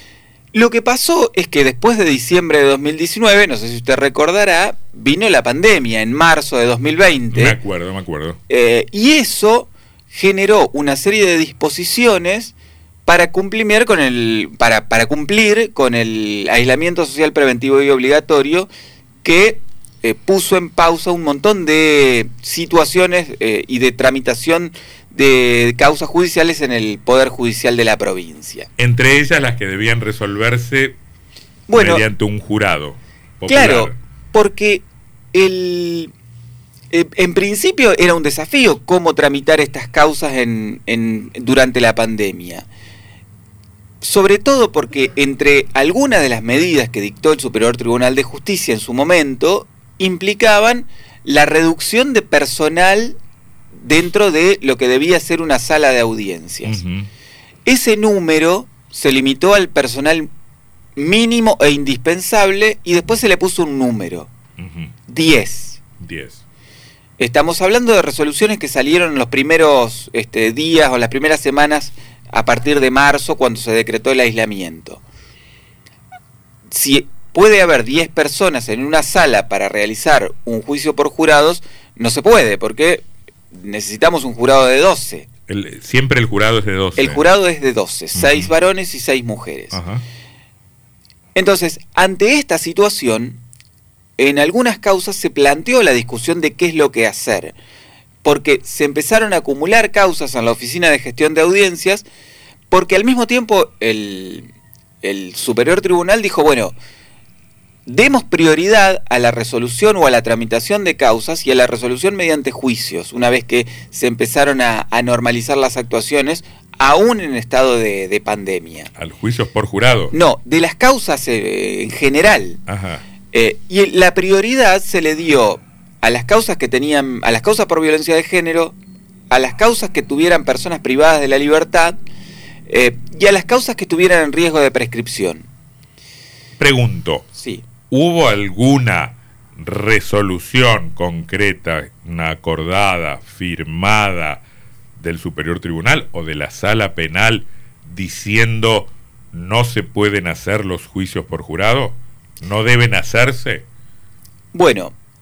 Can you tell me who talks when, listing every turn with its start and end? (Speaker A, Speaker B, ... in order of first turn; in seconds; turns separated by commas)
Speaker A: 0.5-7.6, Speaker B: 7.3-8.4, Speaker A: 8.5-12.5, Speaker A: 13.1-18.7, Speaker A: 19.2-28.7, Speaker B: 28.8-31.0, Speaker A: 31.7-32.1, Speaker B: 31.7-34.0, Speaker A: 33.5-36.1, Speaker A: 36.9-42.7, Speaker A: 44.0-53.2, Speaker A: 53.8-56.8, Speaker B: 56.6-57.1, Speaker A: 57.6-60.3, Speaker A: 61.0-64.3, Speaker B: 64.6-64.9, Speaker A: 65.1-65.8, Speaker B: 66.0-66.4, Speaker A: 67.2-75.0, Speaker A: 76.7-85.3, Speaker B: 85.5-87.3, Speaker A: 87.0-89.8, Speaker B: 88.2-88.5, Speaker B: 89.7-90.0, Speaker A: 91.3-93.4, Speaker A: 94.2-97.5, Speaker A: 98.2-102.1, Speaker A: 102.7-104.5, Speaker A: 105.0-106.8, Speaker A: 107.9-118.9, Speaker B: 119.0-120.2, Speaker A: 120.1-122.6, Speaker B: 122.7-123.0, Speaker A: 123.3-128.8, Speaker A: 129.3-132.0, Speaker A: 132.7-135.5, Speaker B: 136.6-137.3, Speaker A: 137.3-137.7, Speaker B: 137.9-144.4, Speaker B: 145.0-153.7, Speaker A: 154.5-154.9